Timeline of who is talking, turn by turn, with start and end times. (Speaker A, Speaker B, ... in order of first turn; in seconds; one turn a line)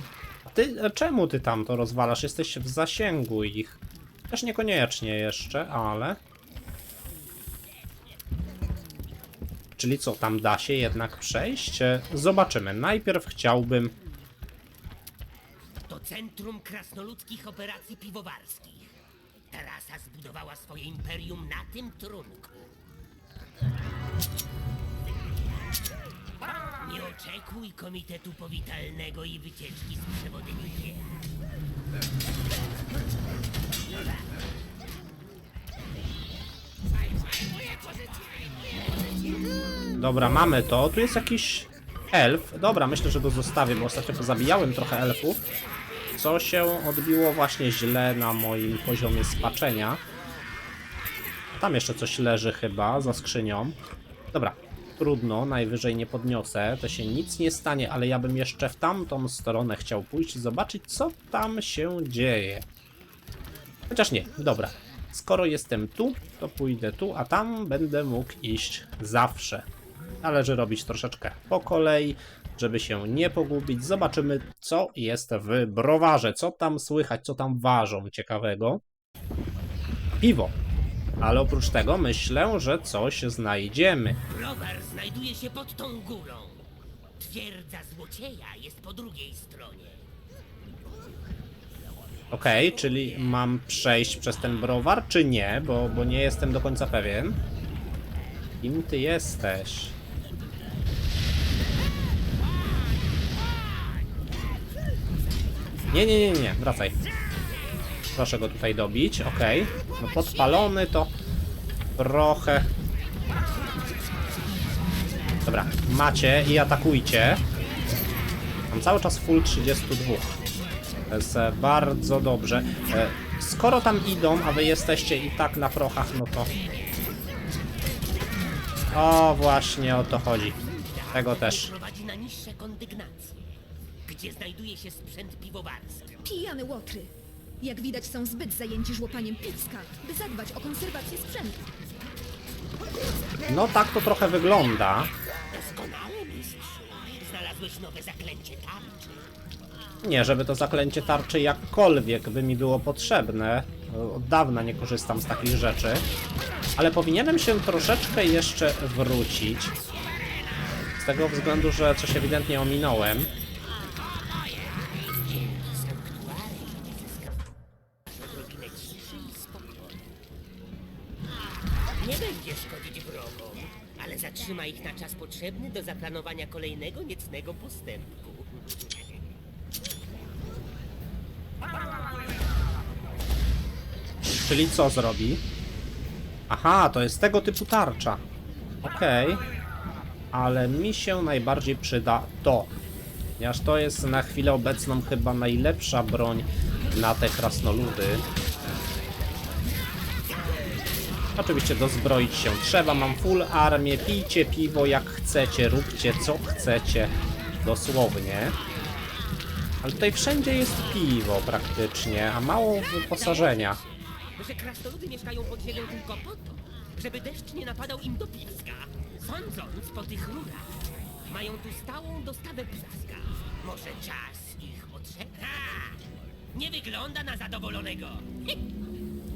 Speaker A: 0.5-6.2
Speaker A: 9.8-13.9
Speaker B: 15.9-18.9
Speaker B: 19.5-22.6
Speaker B: 26.8-31.2
Speaker B: 37.6-38.4
Speaker A: 40.0-45.4
Speaker A: 46.1-50.0
Speaker A: 51.6-53.8
Speaker A: 54.3-62.6
Speaker A: 63.9-69.6
Speaker A: 70.2-78.8
Speaker A: 80.1-80.5
Speaker A: 81.2-84.2
Speaker B: 84.3-86.6
Speaker B: 87.2-90.1
Speaker A: 92.3-97.4
Speaker A: 98.6-100.0
Speaker A: 105.9-107.0
Speaker A: 108.1-111.1
Speaker A: 112.0-112.7
Speaker A: 115.5-117.4
Speaker A: 118.7-120.4
Speaker A: 121.1-126.5
Speaker A: 128.9-130.6
Speaker B: 130.7-133.4
Speaker A: 131.1-131.7
Speaker B: 134.1-136.2
Speaker C: 136.2-141.6
Speaker A: 143.5-145.1
Speaker B: 145.5-149.3
Speaker A: 150.0-156.1
Speaker A: 156.8-159.7
Speaker A: 161.0-163.3
Speaker B: 164.2-167.4
Speaker B: 168.1-170.0
Speaker B: 171.9-179.0
Speaker A: 184.4-185.4
Speaker A: 186.5-188.2
Speaker A: 188.8-189.4
Speaker A: 190.3-192.7
Speaker A: 193.4-198.2
Speaker A: 201.4-208.6
Speaker A: 209.8-213.8
Speaker B: 213.1-220.8
Speaker B: 221.2-228.4